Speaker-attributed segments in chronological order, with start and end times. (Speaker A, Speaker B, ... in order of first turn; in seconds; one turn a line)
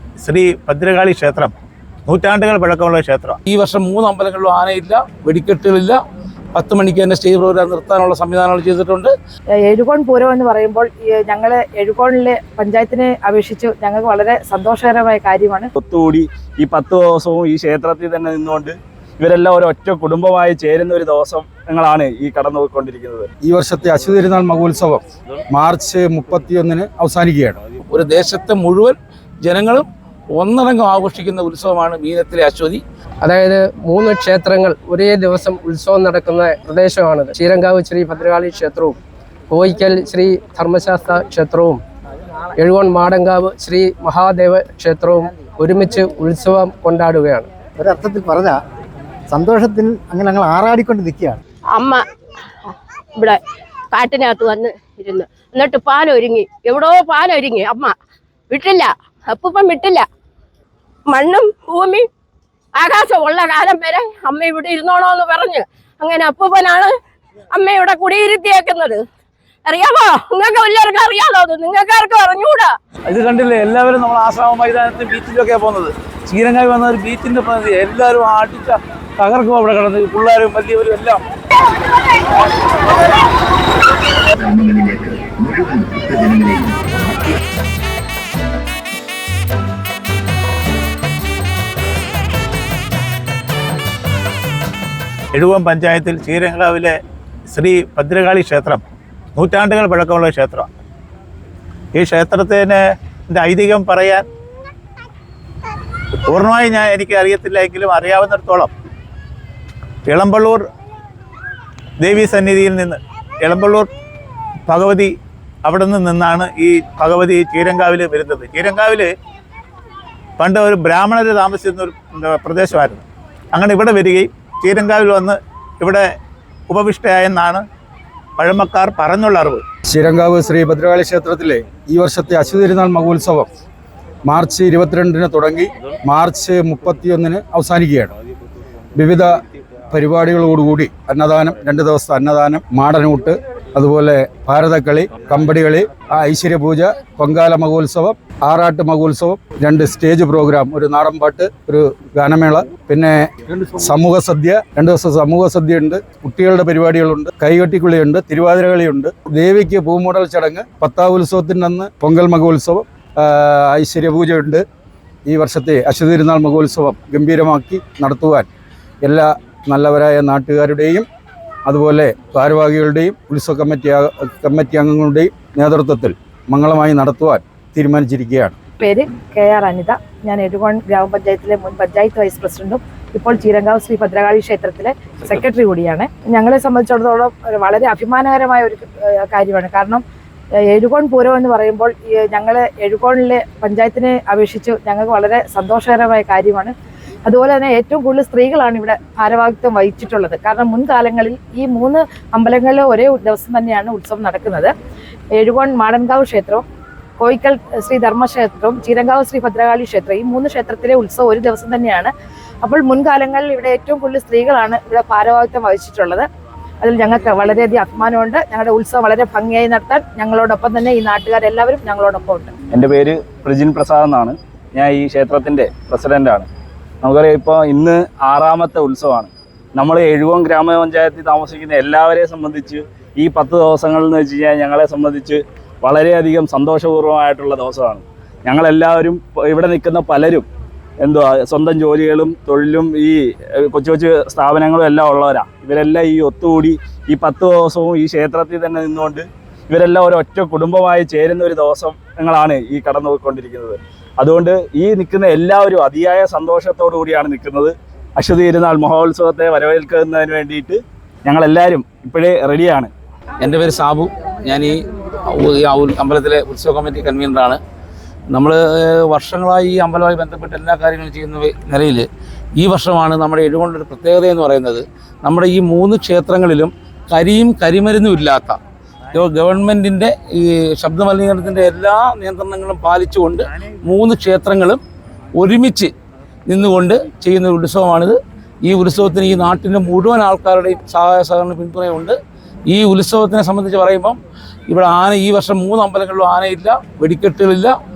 Speaker A: 0.2-1.5
Speaker A: 2.1-3.4
Speaker B: 3.5-6.0
Speaker B: 6.5-9.1
Speaker C: 9.6-15.7
Speaker D: 15.7-23.3
Speaker E: 23.4-27.6
Speaker B: 27.9-32.8
Speaker F: 33.2-39.0
Speaker F: 39.5-41.8
Speaker F: 42.6-47.5
Speaker G: 47.8-48.6
Speaker G: 49.3-51.4
Speaker H: 51.7-52.0
Speaker H: 53.9-57.9
Speaker H: 58.5-60.0
Speaker H: 61.1-62.0
Speaker H: 62.7-66.9
Speaker H: 67.5-69.0
Speaker H: 69.7-72.7
Speaker B: 73.1-81.2
Speaker A: 95.3-97.0
Speaker A: 97.5-98.8
Speaker A: 99.3-100.7
Speaker A: 101.9-104.2
Speaker A: 106.3-108.7
Speaker A: 110.0-110.6
Speaker A: 112.0-113.9
Speaker A: 114.7-115.1
Speaker A: 115.6-119.1
Speaker A: 120.4-126.0
Speaker A: 126.7-127.6
Speaker A: 128.4-129.6
Speaker E: 129.9-133.5
Speaker E: 134.3-138.1
Speaker E: 139.0-139.3
Speaker E: 139.9-164.6
Speaker E: 165.3-168.5
Speaker E: 169.0-171.1
Speaker E: 171.7-178.6
Speaker C: 178.8-190.0
Speaker C: 190.7-196.7
Speaker C: 197.2-204.7
Speaker C: 205.3-206.6
Speaker C: 207.2-216.3
Speaker C: 216.8-222.5
Speaker D: 222.7-226.5
Speaker D: 227.0-240.5
Speaker D: 241.0-262.9
Speaker B: 263.4-264.7
Speaker B: 265.3-267.6
Speaker B: 268.3-272.1
Speaker B: 272.6-278.6
Speaker B: 279.1-284.8
Speaker B: 285.4-285.9
Speaker B: 286.5-292.1
Speaker B: 292.7-294.2
Speaker B: 294.7-297.7